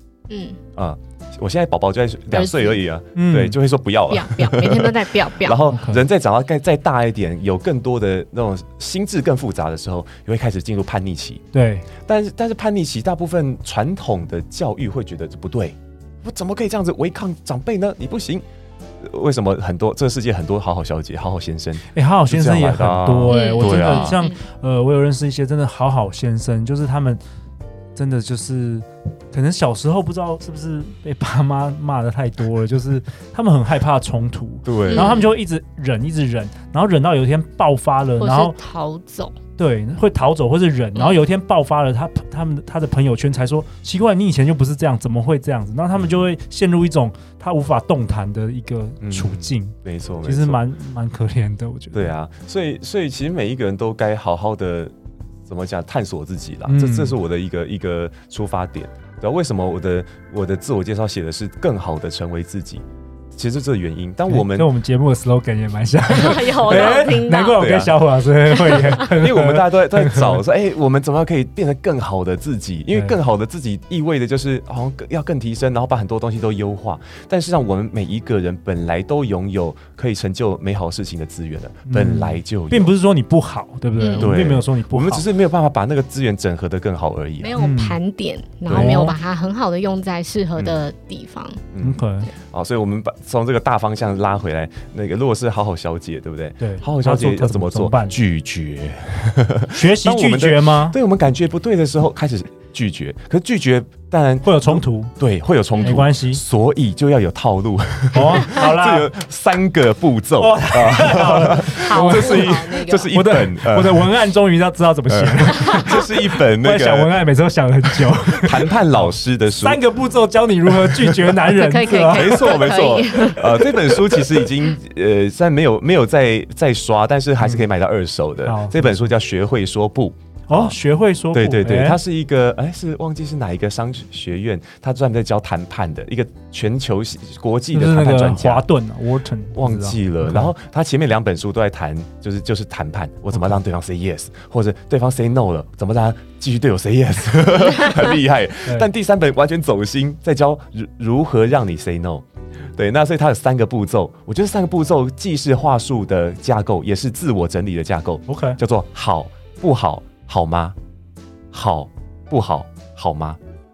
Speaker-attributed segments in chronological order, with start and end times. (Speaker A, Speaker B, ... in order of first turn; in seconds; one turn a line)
Speaker A: 0.3-0.6
Speaker B: 0.8-11.4
Speaker A: 2.3-2.8
Speaker C: 3.1-3.6
Speaker A: 4.1-5.6
Speaker C: 5.7-6.0
Speaker C: 11.5-11.9
Speaker B: 12.1-18.4
Speaker B: 19.0-24.2
Speaker C: 21.9-27.2
Speaker A: 23.3-24.4
Speaker C: 27.9-38.5
Speaker B: 34.6-35.2
Speaker A: 34.9-35.3
Speaker A: 38.2-39.4
Speaker C: 39.6-52.1
Speaker A: 41.0-41.2
Speaker B: 46.0-46.2
Speaker B: 49.0-50.6
Speaker B: 51.9-54.9
Speaker B: 55.5-64.7
Speaker C: 56.7-57.2
Speaker C: 64.3-70.4
Speaker A: 66.1-67.6
Speaker B: 66.7-68.0
Speaker A: 68.5-69.0
Speaker B: 68.7-82.9
Speaker C: 81.9-85.2
Speaker A: 84.0-84.3
Speaker B: 84.2-87.5
Speaker A: 87.4-91.6
Speaker C: 87.6-88.0
Speaker B: 88.7-89.1
Speaker C: 88.7-89.1
Speaker B: 91.7-114.1
Speaker C: 91.8-92.3
Speaker C: 96.6-98.2
Speaker C: 99.7-101.0
Speaker C: 104.4-105.1
Speaker C: 105.8-106.4
Speaker C: 108.1-109.1
Speaker C: 110.4-122.6
Speaker A: 111.8-113.1
Speaker B: 115.1-117.2
Speaker A: 115.5-116.0
Speaker B: 118.3-119.8
Speaker B: 120.7-121.2
Speaker A: 121.5-124.5
Speaker B: 122.1-130.8
Speaker C: 127.4-127.7
Speaker C: 128.4-129.1
Speaker C: 130.5-132.0
Speaker B: 131.3-138.7
Speaker C: 137.7-140.5
Speaker B: 139.5-152.2
Speaker C: 143.3-143.6
Speaker B: 152.8-160.8
Speaker C: 158.3-158.6
Speaker B: 161.5-163.4